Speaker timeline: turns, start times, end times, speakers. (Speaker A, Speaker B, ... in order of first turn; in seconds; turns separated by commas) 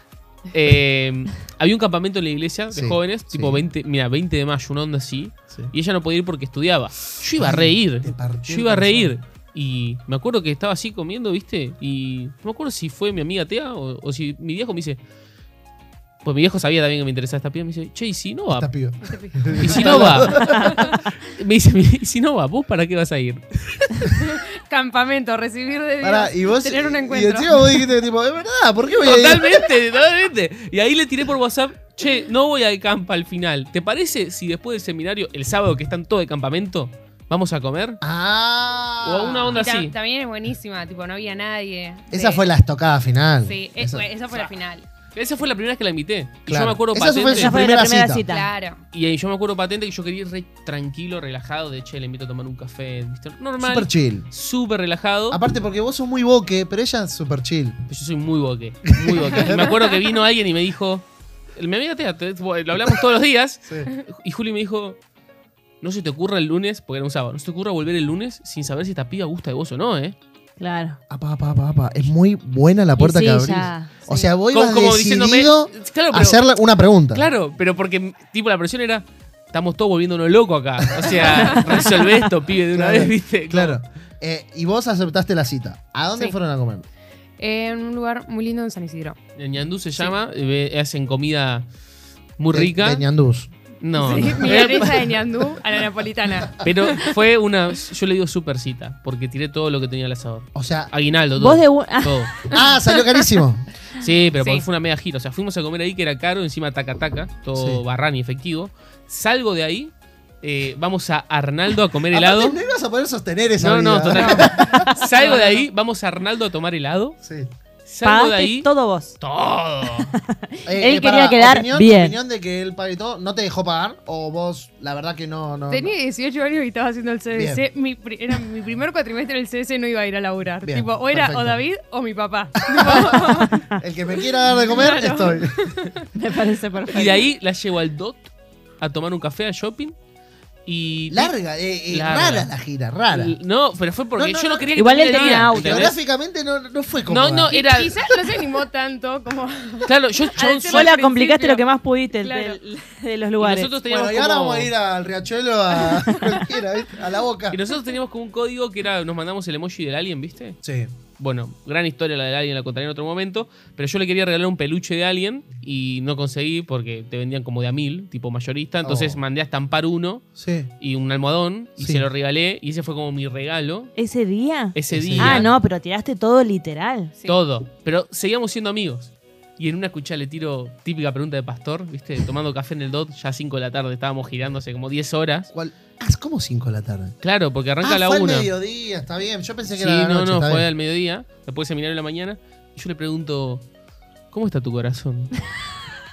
Speaker A: 0.5-15.0, Speaker B: 2.7-3.6, Speaker B: 7.4-9.2, Speaker A: 16.2-18.7, Speaker B: 18.5-21.0, Speaker C: 19.0-21.0, Speaker A: 19.6-24.1, Speaker C: 24.1-27.6, Speaker B: 26.0-29.7, Speaker A: 29.0-38.0, Speaker B: 38.0-39.6, Speaker A: 39.0-40.0, Speaker C: 39.5-42.4, Speaker B: 42.1-44.1, Speaker C: 43.4-44.9, Speaker A: 45.1-47.6, Speaker B: 46.5-48.2, Speaker D: 47.3-48.5, Speaker C: 48.3-48.8, Speaker A: 48.9-55.4, Speaker B: 53.6-54.3, Speaker B: 55.3-57.8, Speaker A: 57.9-65.0, Speaker B: 58.9-59.8, Speaker A: 65.8-70.2, Speaker D: 70.6-71.0, Speaker B: 71.1-77.3, Speaker D: 73.0-73.9, Speaker A: 74.5-76.4, Speaker A: 77.1-83.8, Speaker B: 80.9-81.6, Speaker B: 82.7-86.9, Speaker C: 87.4-89.2, Speaker A: 89.4-91.7, Speaker A: 92.4-93.0, Speaker B: 92.5-93.5, Speaker A: 93.8-95.1, Speaker C: 94.0-97.1, Speaker A: 96.6-102.5, Speaker B: 100.5-100.9, Speaker D: 101.4-102.6, Speaker B: 102.5-103.7, Speaker A: 104.0-112.6, Speaker B: 107.5-107.8, Speaker B: 112.1-114.9, Speaker A: 113.6-117.2, Speaker C: 114.1-115.7, Speaker D: 114.7-115.0, Speaker B: 117.2-117.5, Speaker A: 117.9-118.7, Speaker D: 118.0-119.2, Speaker A: 119.2-120.1, Speaker D: 120.1-122.2, Speaker B: 120.7-126.0, Speaker C: 125.7-133.7, Speaker B: 127.3-127.7, Speaker B: 130.6-131.6, Speaker B: 132.7-135.7, Speaker C: 134.2-136.0, Speaker D: 136.2-137.3, Speaker A: 136.9-139.9, Speaker A: 140.7-141.3, Speaker B: 141.1-143.4, Speaker A: 141.9-142.5, Speaker A: 143.1-146.0, Speaker B: 144.2-147.6, Speaker D: 144.8-145.9, Speaker A: 147.1-148.1, Speaker C: 147.5-151.6, Speaker A: 149.9-150.9, Speaker D: 150.7-153.7, Speaker C: 152.2-152.6, Speaker A: 153.4-154.7, Speaker B: 153.9-157.6, Speaker A: 157.5-160.6, Speaker B: 160.6-160.9, Speaker A: 161.2-170.3, Speaker B: 168.8-169.2, Speaker B: 170.4-170.7, Speaker A: 170.8-174.0, Speaker B: 171.8-172.1, Speaker D: 174.0-177.1, Speaker A: 174.7-175.5, Speaker B: 174.9-175.5, Speaker A: 177.3-185.5, Speaker B: 185.5-187.2, Speaker A: 187.2-188.5, Speaker B: 187.8-190.7, Speaker A: 189.7-193.6, Speaker A: 194.3-195.3